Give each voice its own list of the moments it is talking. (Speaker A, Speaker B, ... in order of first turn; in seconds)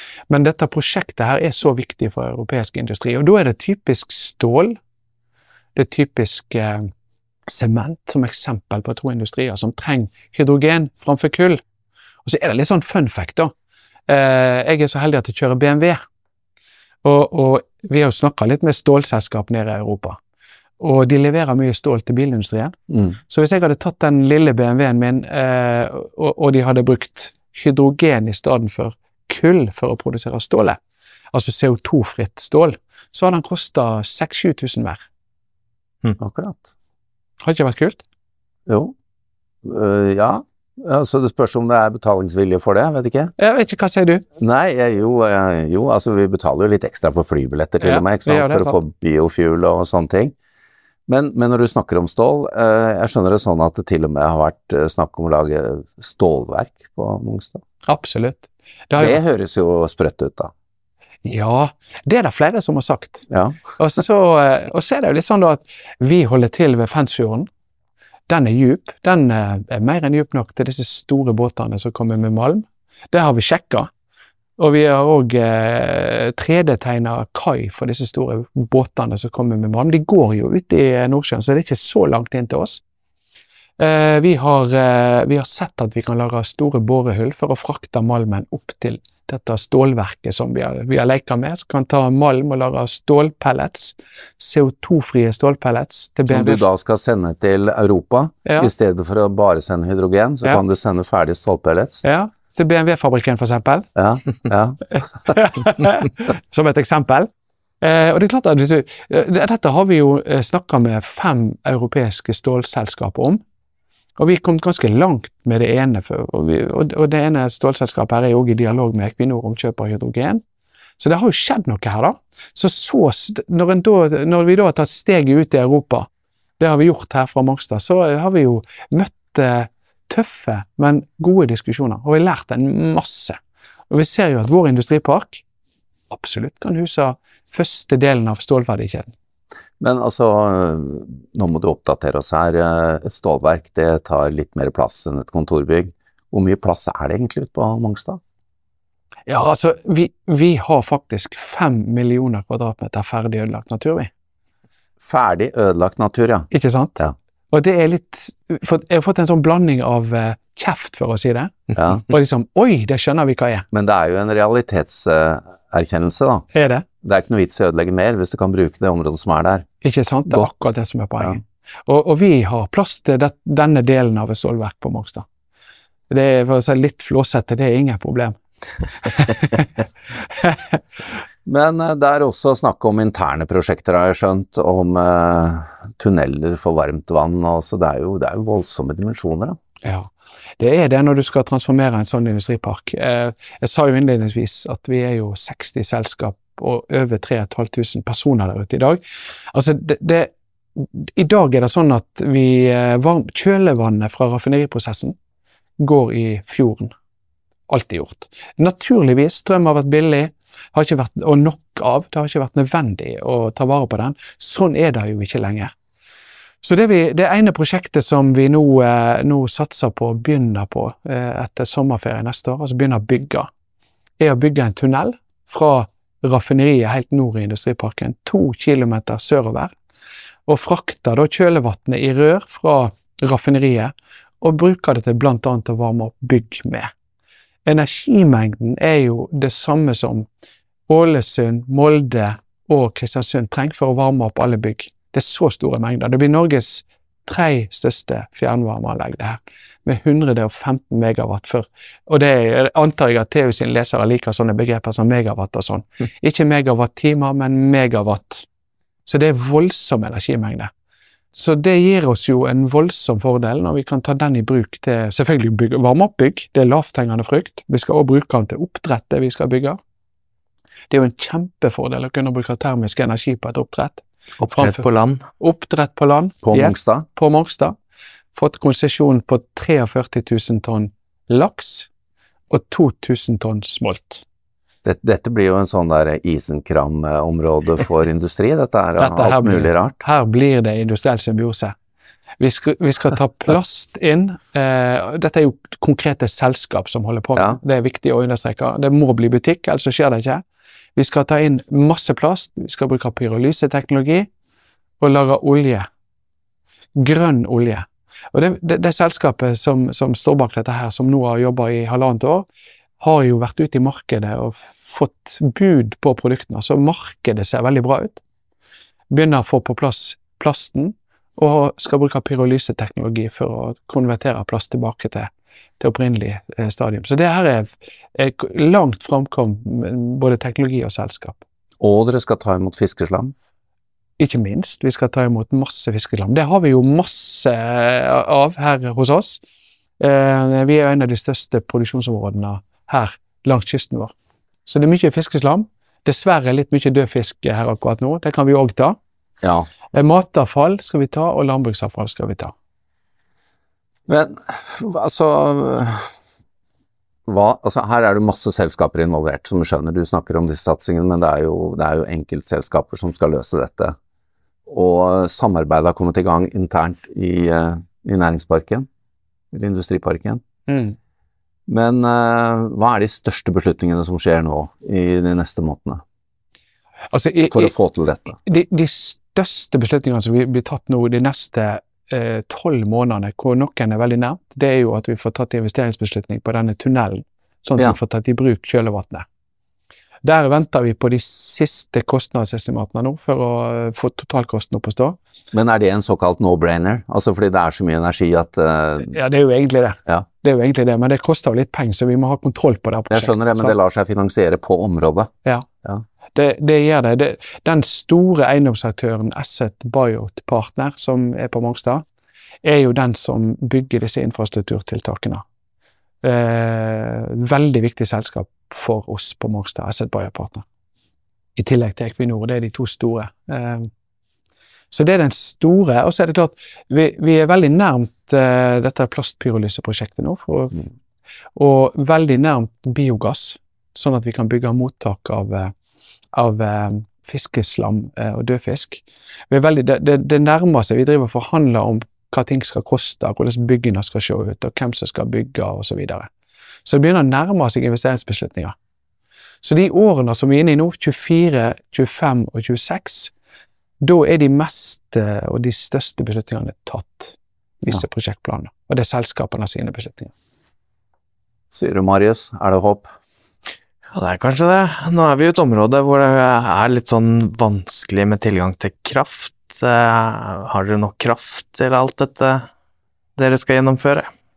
Speaker A: 0.3-4.8, 5.8-6.9, 7.5-11.6, 12.2-13.5, 14.1-16.0, 17.0-20.2, 20.8-22.8, 23.3-30.8, 31.3-35.0, 37.4-38.0, 43.4-44.2, 47.8-48.8, 57.9-59.2, 61.2-63.2, 63.8-67.5, 68.3-73.9, 74.6-82.8, 83.8-96.7, 98.5-98.7, 102.0-103.9, 105.0-107.3, 107.8-113.4, 114.2-120.4, 121.0-126.1, 126.6-133.4, 133.9-135.4, 136.1-139.1, 149.3-154.1, 156.5-163.7, 166.5-166.8, 169.8-175.2, 176.1-178.4, 179.0-179.7, 180.2-180.8, 189.8-205.2, 205.8-206.9, 207.7-215.7, 216.6-223.5, 224.2-229.7, 230.5-236.9, 237.6-240.3, 240.9-258.4, 259.1-260.7, 261.3-269.8, 270.9-277.8, 278.3-281.9, 282.5-284.2, 289.0-291.7, 292.4-300.4, 300.9-304.3, 305.0-305.9, 306.9-312.5, 313.0-318.2, 319.1-331.4, 334.2-339.4, 340.0-344.1, 344.6-349.0, 349.9-352.5, 370.7-371.0, 377.1-377.7, 378.4-389.2, 390.2-395.2, 399.0-403.8, 406.3-412.0, 412.6-415.4, 416.2-420.6, 421.6-423.9, 424.9-430.8, 431.6-435.7, 436.3-446.3, 446.9-448.7, 449.6-453.3, 454.0-460.3
Speaker B: 36.2-36.6, 38.7-38.9, 39.6-43.3, 44.4-50.3, 51.1-57.6, 59.0-60.5, 63.3-63.6, 96.3-102.0, 103.9-105.3, 139.8-148.2, 155.0-157.1, 161.7-162.0, 163.7-166.5, 167.0-169.7, 170.3-170.7, 181.4-189.6, 276.4-277.1, 284.8-289.9, 331.8-333.3, 349.4-349.7, 354.1-356.1, 357.3-363.9, 364.7-368.9, 369.5-370.4, 371.7-376.0, 377.5-378.4, 395.5-399.1, 403.1-405.3, 461.7-463.1
Speaker C: 274.4-275.2, 464.1-472.7, 473.4-474.3